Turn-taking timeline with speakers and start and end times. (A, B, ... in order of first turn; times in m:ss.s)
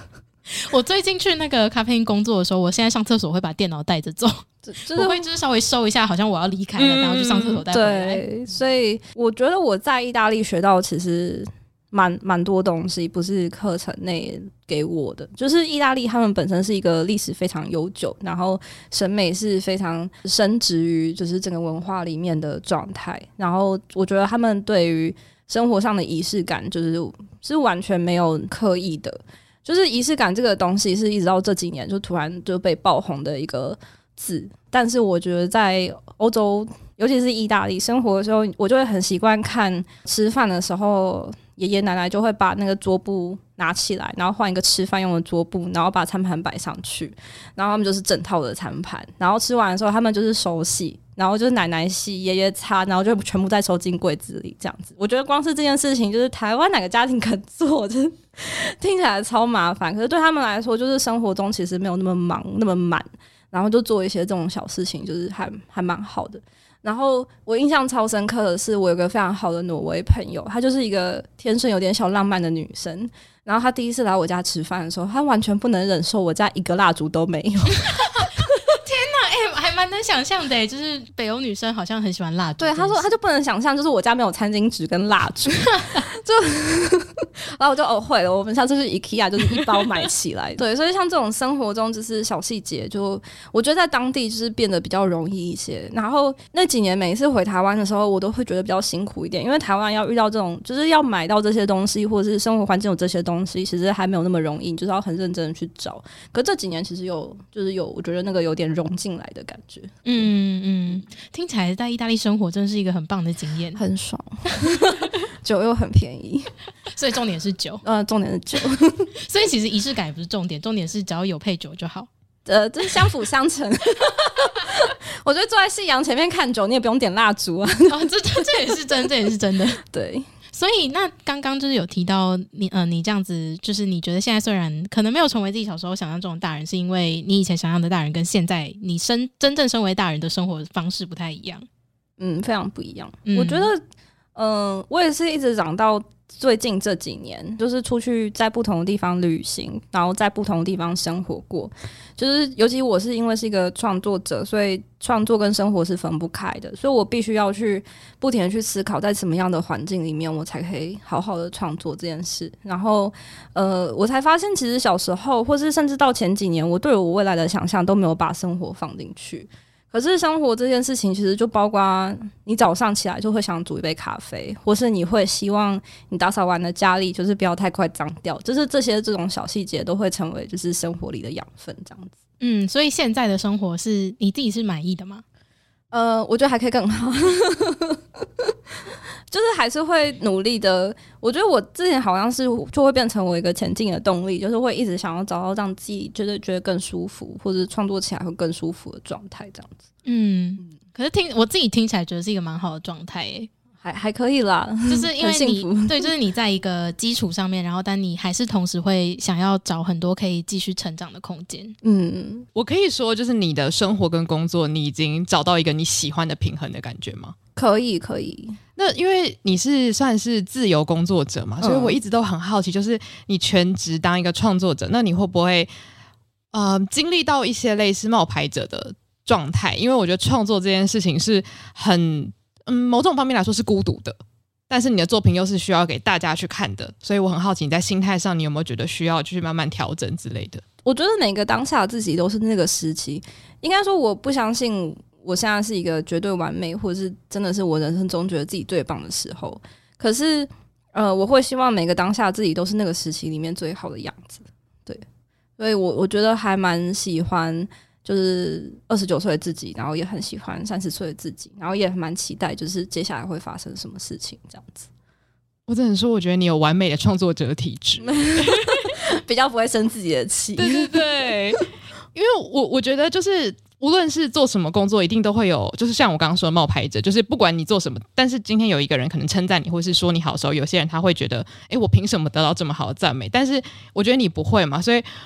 0:00.5-0:08.2 A
0:04.7-0:05.2 B
0:06.8-0:07.6 C
0:07.7-1:17.8 B
1:18.2-1:23.1 A
1:22.6-1:50.0 B
1:50.0-1:53.8 A
1:53.8-1:56.5 B
1:54.6-1:55.0 A
1:56.9-1:57.8 A
1:57.8-1:59.1 B
1:59.2-2:02.1 A
2:02.5-2:08.5 B
2:07.9-2:09.8 A
2:09.8-2:10.3 B
2:10.5-2:21.6 A
2:22.2-2:23.8 B
2:23.2-2:23.7 A
2:24.4-3:02.1 B
3:02.4-3:05.2 A
3:05.9-3:08.5 B
3:09.3-3:19.8 B
3:20.0-3:23.5 A
3:23.8-3:26.1 B
3:24.9-3:31.8 A
3:31.8-3:32.5 B
3:32.5-3:37.3 C
3:37.6-3:38.6 B
3:38.8-3:45.7 C
3:41.6-3:42.0 B
3:46.5-3:54.2 C
3:54.7-4:00.6 C
4:00.8-4:15.0 B
4:15.6-4:24.9 B
4:25.7-4:29.0 C
4:28.0-4:31.0 B
4:30.6-4:45.1 C